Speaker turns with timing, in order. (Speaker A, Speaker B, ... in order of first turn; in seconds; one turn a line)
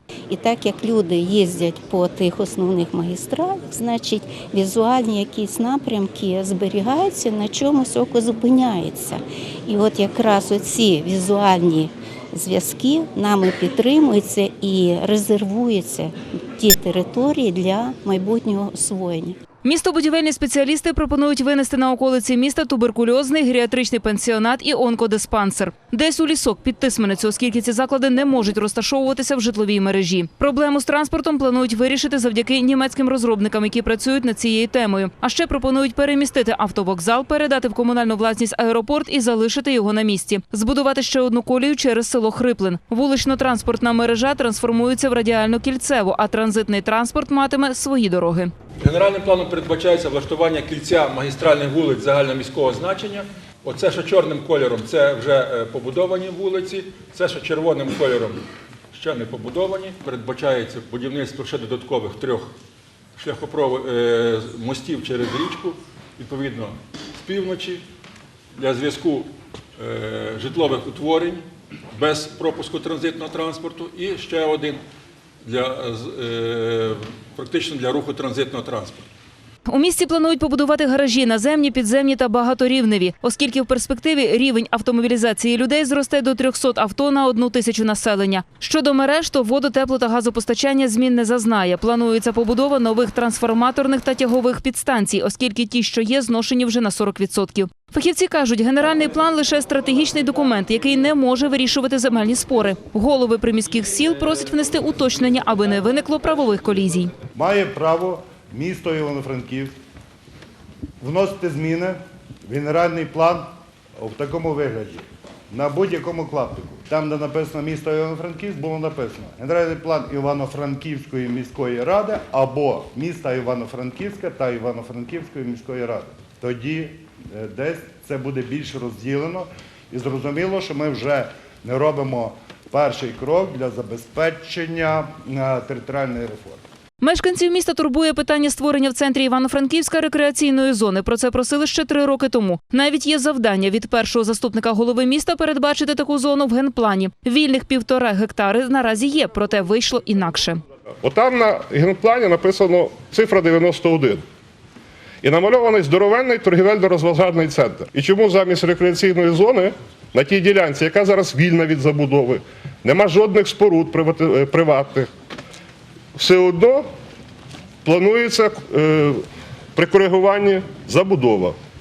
Speaker A: 0.3-19.4
Speaker B: 19.6-48.5
Speaker C: 48.8-62.5
Speaker C: 63.1-67.8
Speaker C: 68.6-74.8
Speaker C: 75.4-79.1
Speaker B: 79.7-107.1
Speaker D: 107.3-109.7
Speaker D: 111.0-136.6
Speaker B: 137.0-150.6
Speaker E: 151.0-154.2
Speaker E: 155.2-165.1
Speaker E: 166.1-166.8
Speaker E: 167.8-169.2
Speaker E: 169.8-171.6